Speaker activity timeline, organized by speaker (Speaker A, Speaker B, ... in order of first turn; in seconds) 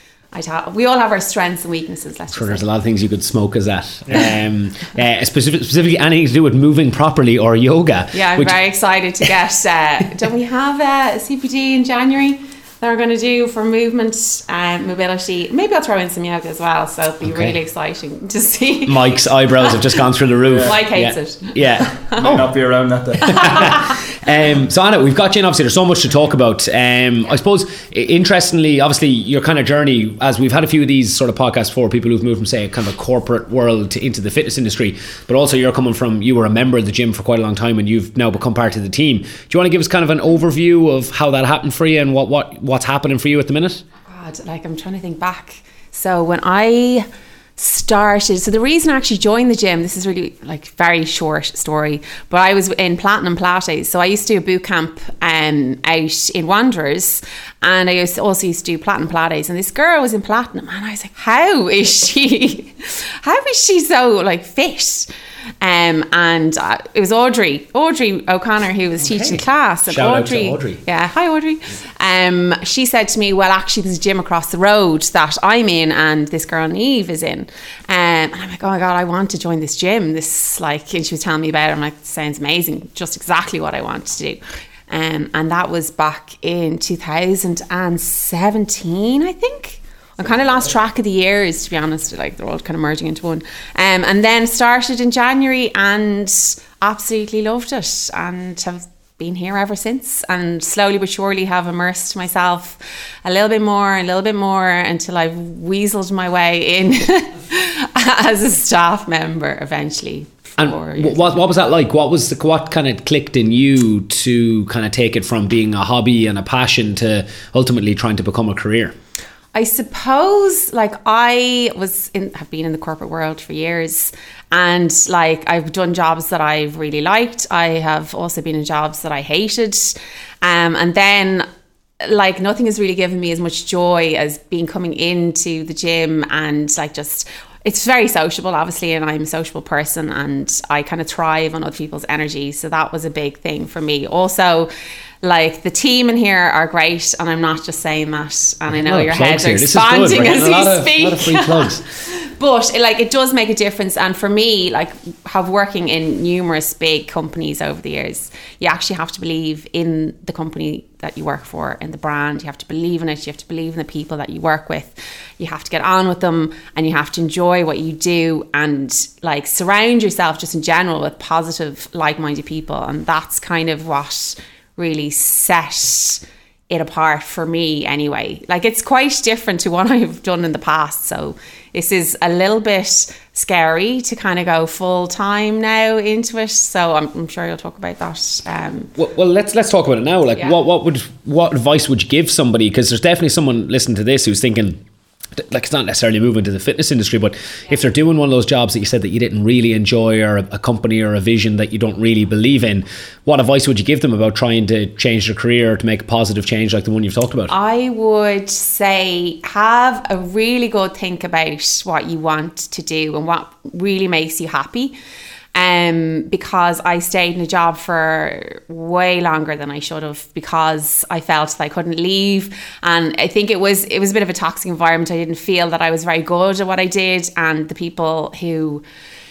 Speaker A: 0.3-2.6, 8.1-19.8, 20.6-22.3, 23.3-23.9, 44.1-47.1, 47.6-65.1, 65.6-111.3, 119.5-131.4, 132.0-144.7, 145.2-188.9, 207.5-214.9, 215.6-228.8
Speaker B: 2.3-8.6, 17.2-17.6, 18.9-22.4, 23.3-43.8, 69.1-70.8, 110.6-118.9, 148.7-151.8, 189.0-194.8, 195.3-207.5
Speaker C: 20.5-20.8, 22.1-23.8